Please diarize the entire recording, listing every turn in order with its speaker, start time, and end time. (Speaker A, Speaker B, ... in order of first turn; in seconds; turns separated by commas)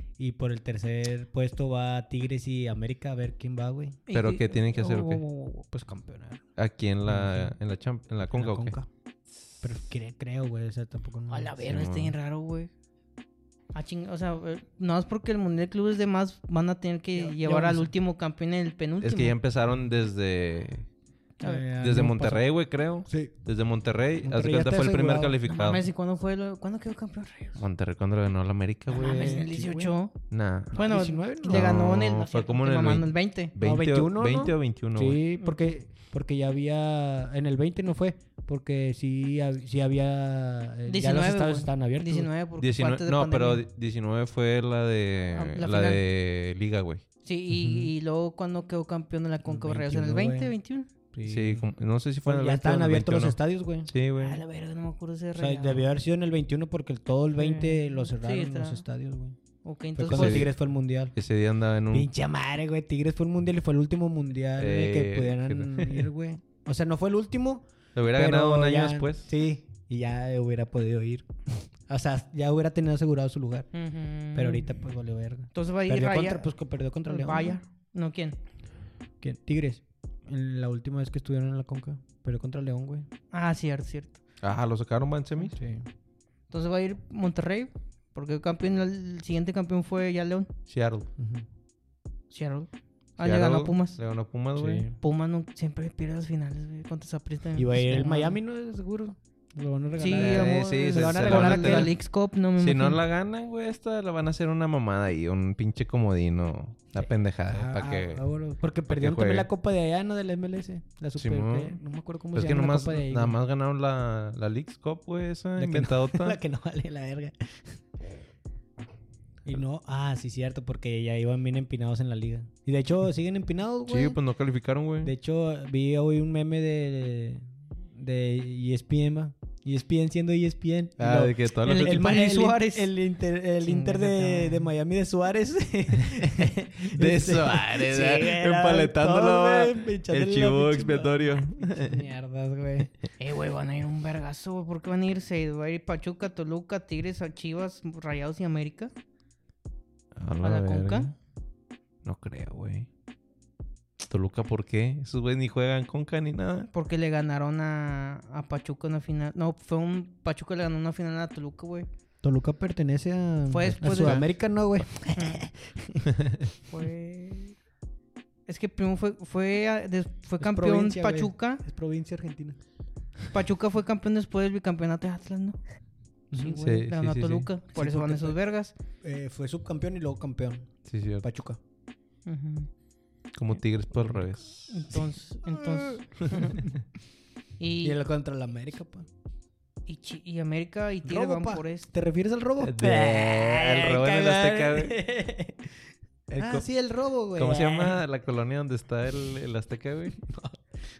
Speaker A: 0.2-4.0, Speaker B: 4.1-5.6, Speaker C: 4.1-5.2, Speaker A: 5.6-6.4, Speaker C: 6.6-8.8, Speaker A: 7.0-7.5, Speaker A: 8.3-8.9, Speaker A: 9.6-11.6, Speaker B: 11.3-12.7, Speaker C: 11.6-12.1, Speaker B: 13.7-19.3, Speaker A: 17.1-17.9, Speaker C: 19.0-20.9, Speaker A: 21.4-22.5, Speaker C: 21.8-25.8, Speaker A: 23.1-23.4, Speaker A: 24.2-25.4, Speaker B: 25.5-27.6, Speaker C: 27.6-29.5, Speaker B: 28.9-30.1, Speaker A: 29.1-29.9, Speaker C: 30.3-30.8, Speaker B: 30.7-33.5, Speaker A: 30.7-31.8, Speaker C: 31.4-35.2, Speaker A: 33.6-42.3, Speaker B: 35.4-35.7, Speaker B: 40.9-43.6, Speaker C: 42.6-47.0, Speaker B: 45.3-46.0, Speaker B: 47.2-50.9, Speaker A: 47.5-47.9, Speaker A: 49.4-50.5, Speaker A: 51.1-51.7, Speaker C: 51.2-54.4, Speaker A: 52.2-53.9, Speaker B: 54.2-55.8, Speaker A: 55.3-59.4, Speaker B: 57.4-58.8, Speaker B: 59.6-60.5, Speaker A: 60.0-61.1, Speaker C: 60.1-60.5, Speaker C: 61.1-62.1, Speaker A: 61.9-73.7, Speaker C: 64.6-66.1, Speaker C: 67.9-69.3, Speaker B: 73.7-74.7, Speaker A: 74.3-77.6, Speaker B: 75.5-76.5, Speaker B: 77.1-78.4, Speaker A: 79.2-83.1, Speaker B: 83.3-84.2, Speaker C: 84.4-85.5, Speaker A: 85.5-85.9, Speaker B: 86.5-90.5, Speaker C: 90.7-91.1, Speaker A: 91.2-91.5, Speaker B: 92.3-94.0, Speaker C: 93.2-94.9, Speaker A: 94.5-95.0, Speaker B: 95.0-98.4, Speaker A: 97.5-101.9, Speaker B: 100.0-103.0, Speaker C: 100.1-102.0, Speaker C: 102.6-108.2, Speaker A: 107.0-113.4, Speaker C: 108.9-109.5, Speaker C: 111.2-111.8, Speaker C: 112.3-116.4, Speaker A: 115.6-117.8, Speaker A: 119.4-124.2, Speaker C: 123.9-125.1, Speaker A: 125.0-142.9, Speaker C: 131.0-132.1, Speaker B: 131.6-132.9, Speaker B: 133.6-134.7, Speaker C: 136.9-142.0, Speaker B: 143.2-148.9, Speaker C: 150.2-151.1, Speaker B: 150.4-151.1, Speaker C: 152.0-152.9, Speaker C: 154.1-156.7, Speaker B: 156.7-161.9, Speaker A: 162.2-166.1, Speaker B: 163.5-164.2, Speaker C: 163.8-164.3, Speaker B: 165.1-165.4, Speaker B: 166.7-167.6, Speaker B: 168.5-171.6, Speaker A: 170.4-172.6, Speaker B: 173.3-175.6, Speaker A: 176.3-176.6, Speaker B: 176.3-178.7, Speaker C: 176.6-177.5, Speaker A: 177.7-178.4, Speaker A: 179.0-181.6, Speaker C: 180.8-181.2, Speaker B: 182.2-182.7, Speaker C: 183.3-185.0, Speaker B: 184.7-186.7, Speaker A: 185.5-186.0, Speaker B: 187.6-188.0, Speaker A: 187.8-189.1, Speaker B: 189.9-191.9, Speaker A: 191.0-198.0, Speaker C: 192.6-195.0, Speaker C: 196.3-196.7, Speaker C: 197.3-200.2, Speaker A: 200.2-200.8